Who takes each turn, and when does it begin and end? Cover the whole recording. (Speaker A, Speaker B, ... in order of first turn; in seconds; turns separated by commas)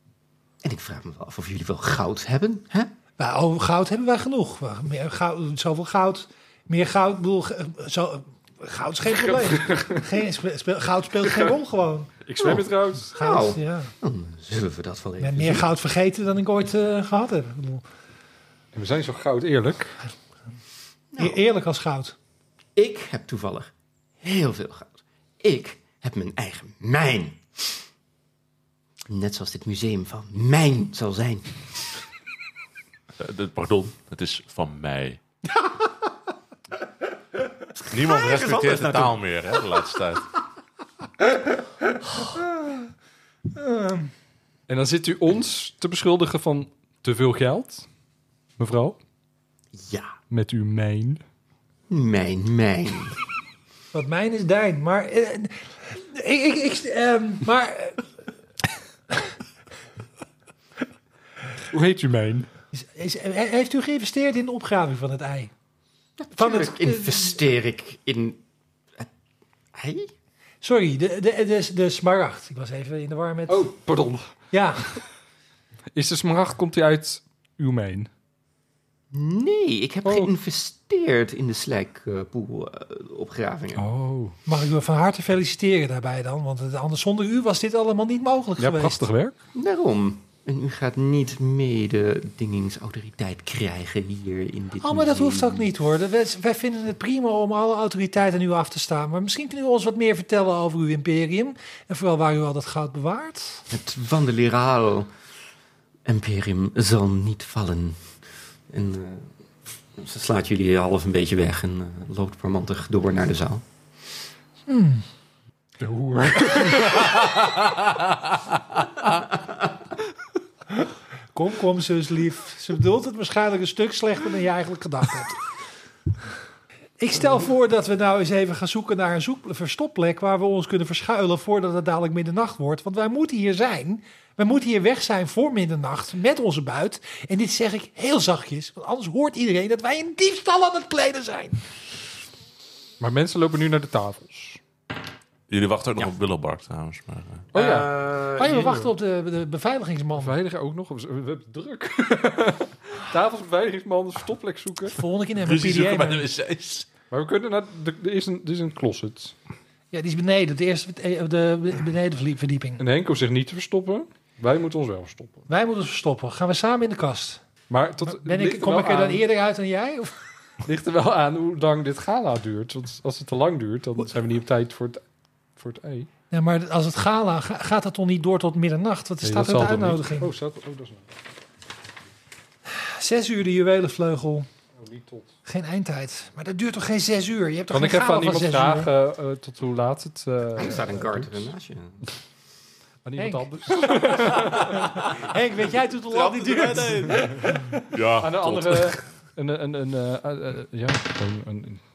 Speaker A: 0.6-2.9, Speaker B: 3.2-12.1, Speaker C: 9.3-10.0, Speaker C: 11.3-11.5, Speaker C: 12.2-13.2, Speaker A: 12.4-15.7, Speaker B: 13.2-13.9, Speaker B: 15.2-17.9, Speaker C: 18.7-20.0, Speaker A: 21.1-21.4, Speaker B: 21.2-22.1, Speaker A: 22.8-27.8, Speaker A: 29.1-32.0, Speaker D: 33.2-35.2, Speaker D: 37.9-40.3, Speaker A: 38.3-39.1, Speaker B: 42.3-42.8, Speaker B: 43.5-44.1, Speaker C: 44.7-47.9, Speaker C: 48.6-49.0, Speaker A: 49.7-50.1, Speaker C: 50.3-51.2, Speaker A: 51.9-53.2, Speaker B: 53.9-58.1, Speaker C: 61.7-62.5, Speaker B: 62.7-65.5, Speaker A: 66.2-68.4, Speaker B: 66.4-67.3, Speaker A: 69.7-70.1, Speaker B: 70.6-73.7, Speaker C: 73.5-74.3, Speaker B: 74.5-74.9, Speaker C: 76.0-78.1, Speaker A: 79.1-83.9, Speaker C: 80.0-80.3, Speaker C: 83.8-84.4, Speaker B: 84.5-89.1, Speaker C: 88.6-89.3, Speaker A: 89.5-95.7, Speaker B: 94.8-103.7, Speaker A: 103.7-105.1, Speaker A: 106.0-108.1, Speaker A: 108.7-109.3, Speaker A: 110.0-113.6, Speaker B: 114.7-115.1, Speaker C: 115.8-117.3, Speaker B: 116.3-116.9, Speaker B: 121.3-125.5, Speaker B: 127.0-141.6, Speaker C: 143.0-144.6, Speaker D: 145.5-147.5, Speaker A: 147.5-148.9, Speaker C: 147.5-147.9, Speaker B: 148.4-150.3, Speaker C: 148.5-148.8, Speaker C: 150.2-155.0, Speaker B: 154.9-156.3, Speaker D: 155.4-156.9, Speaker C: 157.1-159.3, Speaker B: 159.9-162.8, Speaker C: 162.8-165.5, Speaker B: 165.5-167.4, Speaker C: 167.7-169.2, Speaker B: 168.0-170.1, Speaker C: 170.6-175.0, Speaker C: 175.6-176.1, Speaker B: 176.3-180.3, Speaker C: 179.2-181.1, Speaker B: 182.7-184.5, Speaker C: 184.8-185.3, Speaker B: 185.5-188.9, Speaker C: 187.7-191.3, Speaker A: 190.6-192.1, Speaker C: 193.1-194.8, Speaker B: 193.2-197.8, Speaker D: 194.7-195.3, Speaker D: 196.1-199.0, Speaker C: 198.2-201.8